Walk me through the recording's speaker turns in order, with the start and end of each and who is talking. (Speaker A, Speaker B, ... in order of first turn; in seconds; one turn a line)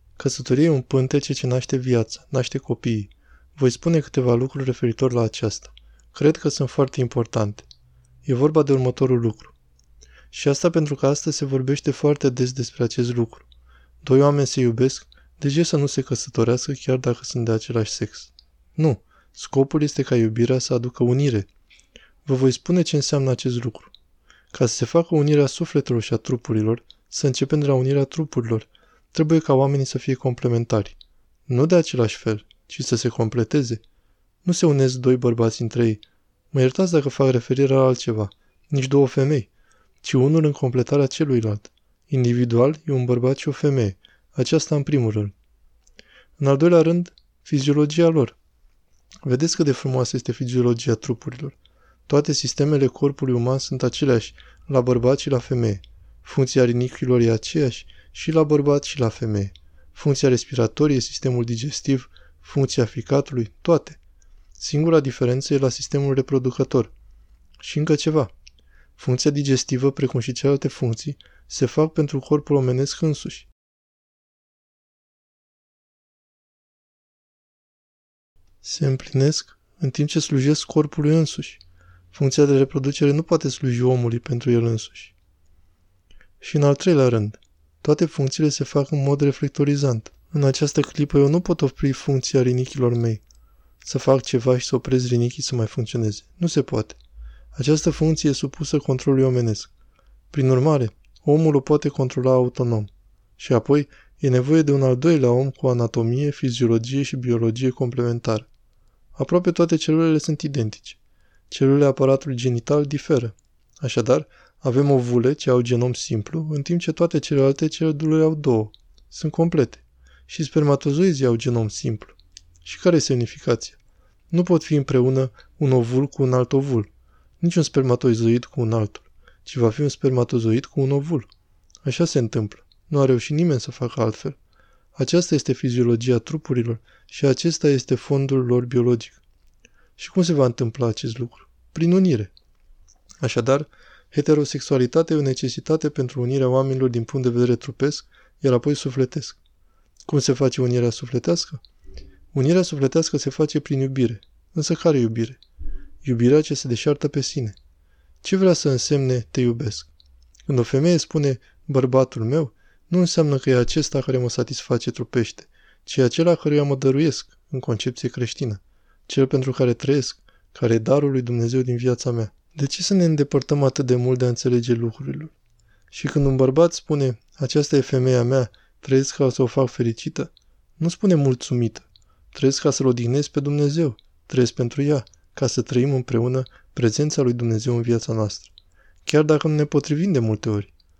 Speaker A: 0.2-7.7
Speaker A: 8.2-9.6
Speaker A: 10.3-13.5
Speaker A: 14.0-21.5
Speaker A: 22.2-23.9
Speaker A: 24.5-33.8
Speaker A: 34.5-39.5
Speaker A: 40.0-45.3
Speaker A: 46.4-48.4
Speaker A: 49.2-51.6
Speaker A: 52.1-64.0
Speaker A: 64.6-66.9
Speaker A: 67.6-68.3
Speaker A: 69.0-73.5
Speaker A: 78.6-81.6
Speaker A: 82.1-85.1
Speaker A: 86.4-93.2
Speaker A: 93.8-97.0
Speaker A: 97.5-99.7
Speaker A: 100.3-108.5
Speaker A: 109.2-111.0
Speaker A: 111.5-123.8
Speaker A: 124.3-126.9
Speaker A: 127.4-131.3
Speaker A: 131.8-134.4
Speaker A: 134.9-139.2
Speaker A: 140.0-142.3
Speaker A: 143.2-149.4
Speaker A: 150.1-151.6
Speaker A: 152.3-155.4
Speaker A: 156.0-157.6
Speaker A: 158.2-159.9
Speaker A: 160.5-175.3
Speaker A: 175.9-188.5
Speaker A: 189.1-190.7